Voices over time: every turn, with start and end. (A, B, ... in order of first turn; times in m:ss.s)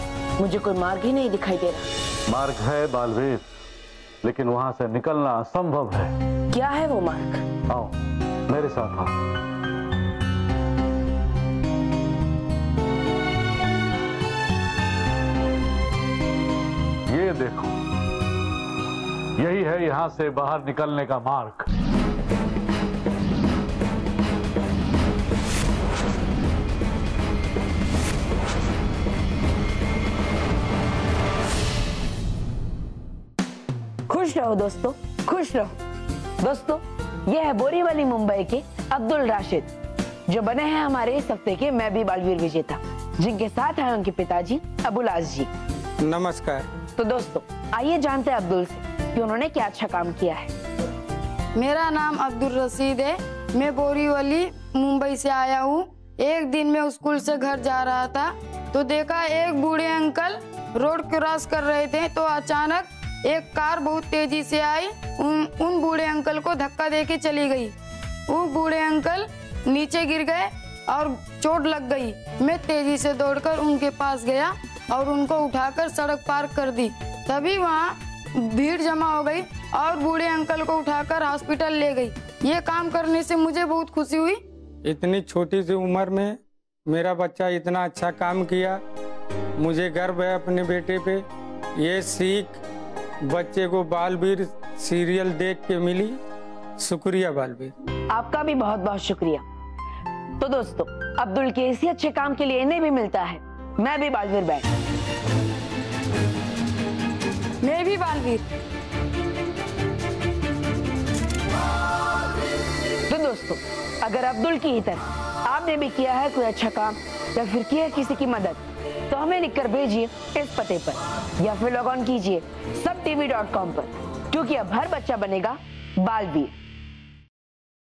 0:00.4-0:01.9 A
0:02.3-0:03.4 B
0:04.2-0:06.1 B
0:06.5-0:07.4 A
0:07.7-0:08.0 B
0:08.5-0:09.1 B
0:17.1-0:17.7 B
0:19.4-0:21.7 B
0:34.1-0:35.7 A
0:36.4-0:39.7 A
0:40.3-0:45.5 A
0:46.1-0:46.6 C
0:47.0-0:50.5 A
0:51.6-1:07.7 D
1:08.3-1:24.4 D
1:24.9-1:26.3 C
1:26.9-1:28.7 C
1:29.6-1:31.2 C
1:31.9-1:32.5 C
1:33.3-1:36.1 C
1:36.9-1:37.7 C
1:38.1-1:39.4 A
1:40.4-1:44.7 A
1:47.6-1:48.4 D
1:53.1-2:06.5 A